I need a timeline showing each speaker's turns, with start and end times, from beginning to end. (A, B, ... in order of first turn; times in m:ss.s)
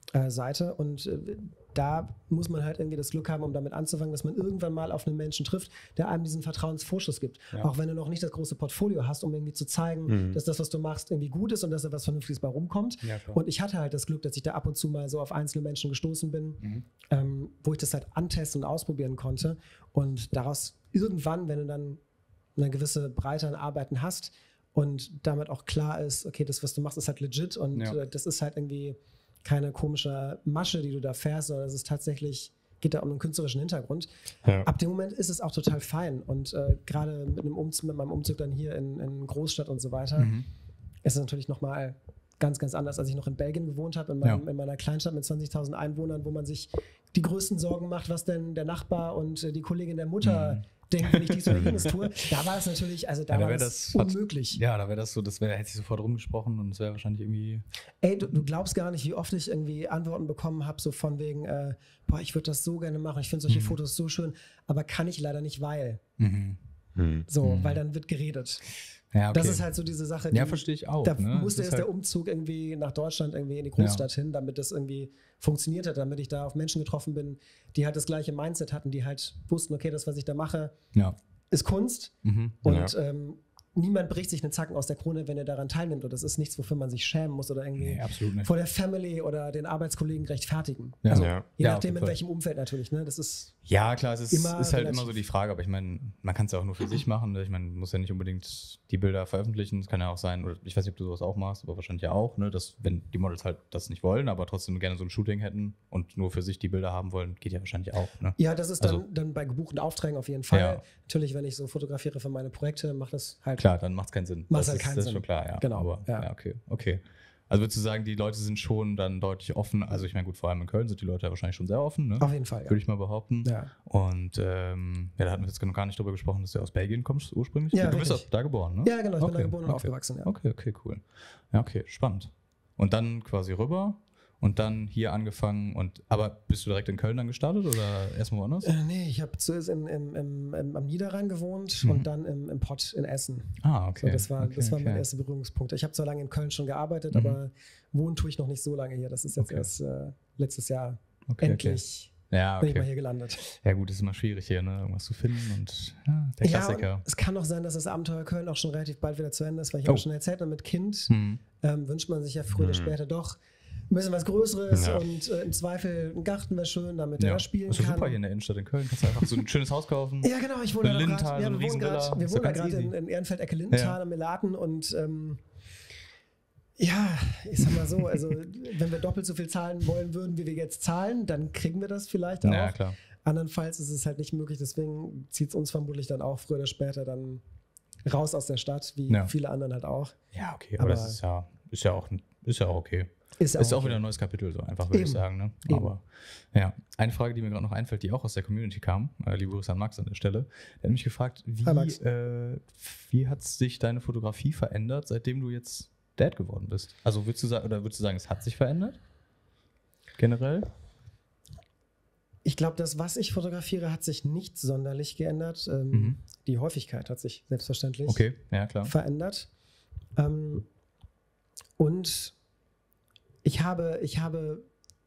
0:00.1-0:22.0 A
0:10.1-0:10.4 B
0:13.0-0:13.4 C
0:22.6-0:34.1 A
0:34.6-0:40.3 A
0:40.2-0:40.5 C
0:41.0-0:54.6 A
0:50.2-0:51.9 C
0:51.5-0:51.8 B
0:53.3-0:57.6 C
0:58.0-1:06.0 A
1:03.5-1:03.8 C
1:06.2-1:06.6 C
1:07.0-1:07.3 B
1:07.3-1:08.6 A
1:07.4-1:07.8 C
1:09.1-1:09.6 C
1:09.3-1:20.7 A
1:10.3-1:11.9 C
1:13.8-1:14.0 C
1:21.5-1:33.6 A
1:22.2-1:22.6 C
1:22.6-1:22.9 B
1:27.8-1:28.5 C
1:31.0-1:32.2 C
1:31.1-1:31.4 B
1:33.6-1:49.0 C
1:34.3-1:35.2 A
1:48.4-1:53.7 A
1:50.5-1:50.8 C
1:53.6-2:18.7 C
1:54.5-1:56.3 A
2:02.2-2:02.8 A
2:03.4-2:03.7 A
2:07.7-2:10.3 A
2:18.6-2:33.6 A
2:23.6-2:25.0 C
2:27.1-2:27.4 C
2:29.4-2:29.7 C
2:31.3-2:32.9 C
2:33.6-2:37.0 C
2:36.4-2:43.4 A
2:41.1-2:41.4 C
2:42.6-2:42.9 B
2:43.9-2:48.2 A
2:44.7-2:45.0 B
2:47.2-2:52.9 C
2:50.2-2:55.4 A
2:53.7-2:54.0 C
2:56.8-3:07.4 A
3:02.4-3:03.0 C
3:08.0-3:10.2 A
3:10.3-3:29.0 C
3:10.8-3:11.2 A
3:13.4-3:14.0 A
3:14.9-3:15.9 A
3:21.6-3:22.0 A
3:30.2-3:30.7 C
3:32.4-3:38.3 A
3:35.9-3:36.2 C
3:38.1-3:38.9 C
3:38.8-3:39.5 A
3:40.2-3:40.6 A
3:41.8-3:42.4 A
3:43.4-3:44.6 A